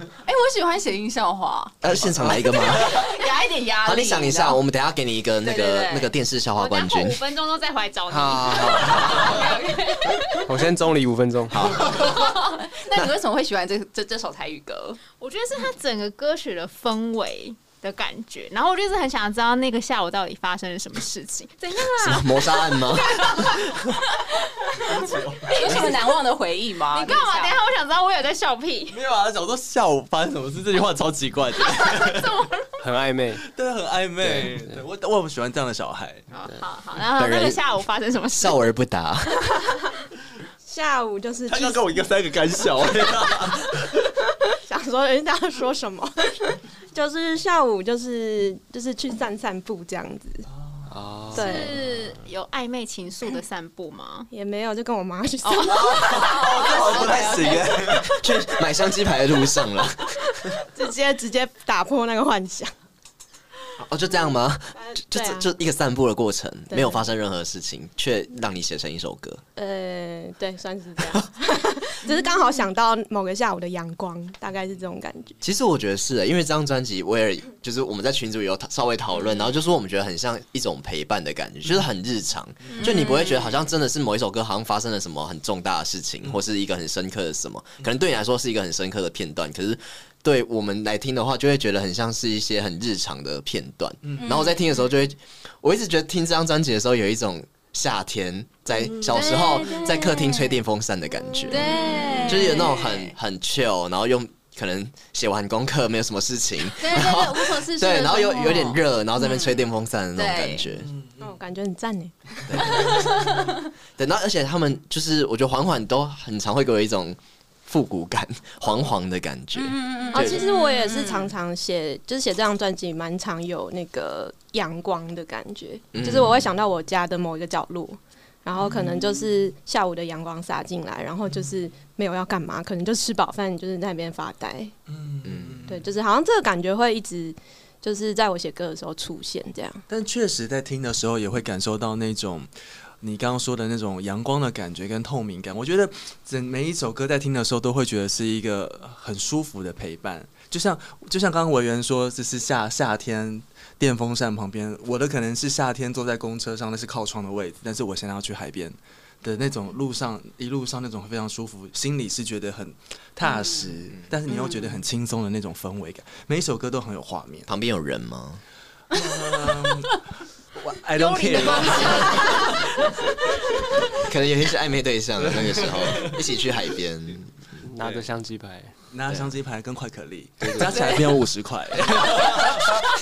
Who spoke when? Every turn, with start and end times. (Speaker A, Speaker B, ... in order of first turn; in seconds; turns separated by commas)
Speaker A: 0.2-4.6, Speaker B: 1.8-2.9, Speaker B: 3.8-7.2, Speaker A: 5.4-6.1, Speaker C: 6.5-10.3, Speaker D: 8.1-9.4, Speaker A: 9.1-10.1, Speaker D: 10.4-11.6, Speaker B: 11.5-12.2, Speaker A: 11.9-15.0, Speaker C: 15.1-23.6, Speaker B: 22.0-23.2, Speaker C: 24.6-25.9, Speaker E: 24.8-25.9, Speaker A: 25.5-27.6, Speaker C: 26.9-29.0, Speaker E: 28.9-32.4, Speaker C: 31.7-32.6, Speaker D: 32.8-33.4, Speaker E: 33.4-36.3, Speaker D: 34.2-34.8, Speaker C: 36.3-38.7, Speaker B: 37.1-37.6, Speaker B: 38.4-39.4, Speaker F: 40.6-42.0, Speaker E: 41.5-44.0, Speaker F: 44.6-50.5, Speaker E: 50.5-50.9, Speaker D: 50.9-51.7, Speaker C: 51.3-54.3, Speaker F: 51.3-51.8, Speaker F: 54.3-56.1, Speaker A: 55.6-57.6, Speaker E: 55.7-58.1, Speaker B: 56.9-60.2, Speaker F: 60.7-62.7, Speaker B: 63.8-69.4, Speaker F: 64.8-65.5, Speaker F: 66.7-67.0, Speaker F: 69.5-75.4, Speaker B: 75.4-110.9, Speaker A: 82.7-83.6, Speaker E: 94.0-94.3, Speaker A: 94.2-94.6, Speaker A: 99.0-100.6, Speaker A: 101.5-103.2, Speaker A: 106.8-110.7, Speaker E: 110.9-111.3, Speaker F: 111.2-112.5, Speaker B: 112.5-113.3, Speaker A: 113.0-113.3, Speaker B: 114.0-120.4, Speaker A: 119.5-121.3, Speaker F: 120.1-134.7, Speaker B: 125.9-126.5, Speaker E: 134.9-135.8, Speaker B: 135.2-135.7, Speaker F: 135.7-139.8, Speaker E: 139.9-142.5, Speaker E: 143.0-167.5, Speaker A: 163.2-163.7, Speaker A: 164.3-164.7, Speaker B: 167.5-168.4, Speaker E: 168.9-170.0, Speaker E: 170.6-173.1, Speaker C: 170.9-172.9, Speaker B: 174.1-177.3, Speaker E: 175.2-176.2, Speaker D: 177.6-178.7, Speaker E: 177.8-178.1, Speaker E: 178.9-182.8, Speaker D: 180.4-181.0